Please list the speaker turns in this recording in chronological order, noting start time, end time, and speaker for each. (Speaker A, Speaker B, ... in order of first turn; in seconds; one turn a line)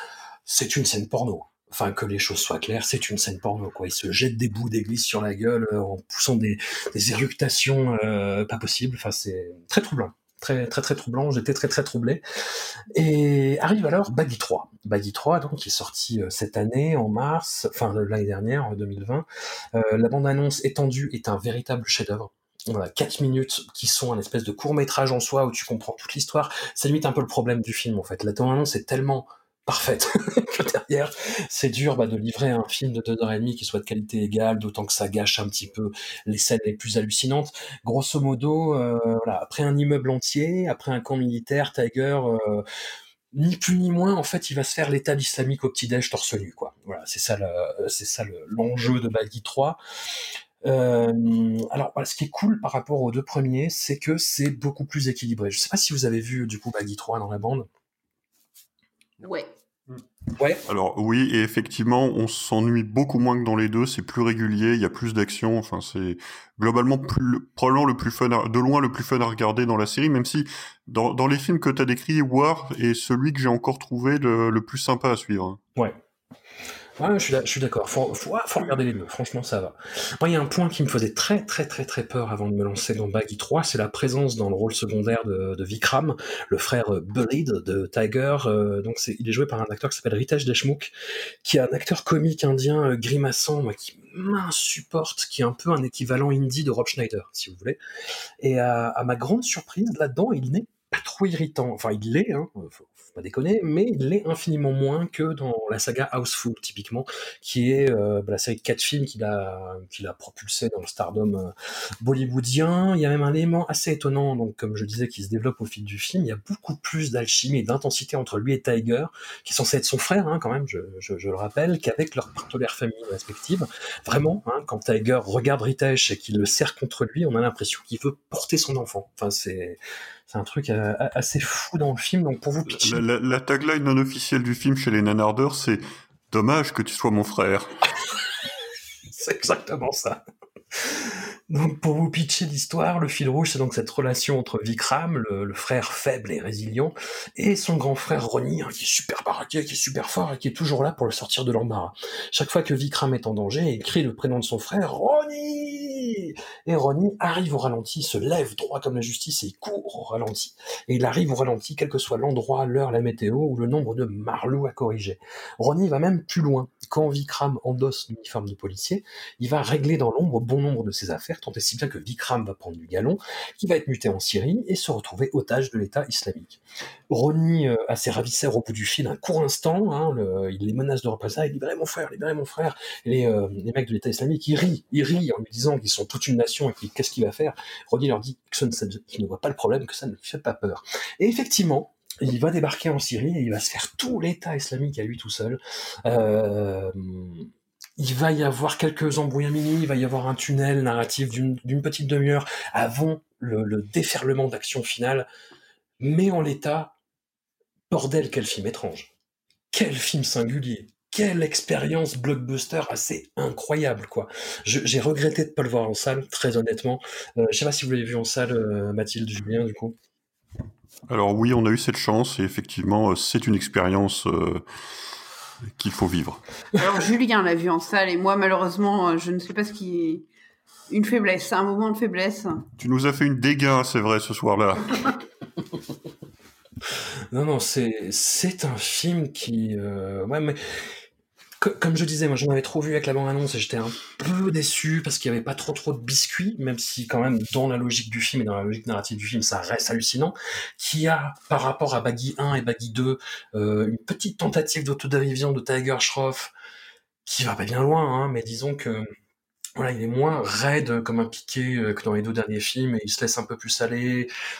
Speaker A: 0.5-12.2
Speaker A: 12.9-42.6
Speaker A: 43.3-49.8
Speaker A: 50.6-57.7
Speaker B: 59.2-59.5
Speaker A: 60.4-60.6
Speaker C: 60.7-75.6
Speaker A: 77.0-90.9
Speaker A: 91.4-97.8
Speaker A: 98.4-133.0
Speaker C: 132.7-137.7
Speaker A: 139.1-140.2
Speaker A: 140.7-205.3
Speaker A: 206.0-206.9
Speaker A: 207.9-209.1
Speaker A: 209.7-219.9
Speaker C: 221.1-224.6
Speaker C: 225.8-226.4
Speaker B: 226.8-230.3
Speaker B: 230.9-232.6
Speaker C: 232.8-235.0
Speaker A: 237.3-240.8
Speaker A: 241.6-256.5
Speaker A: 257.2-259.1
Speaker A: 259.8-264.3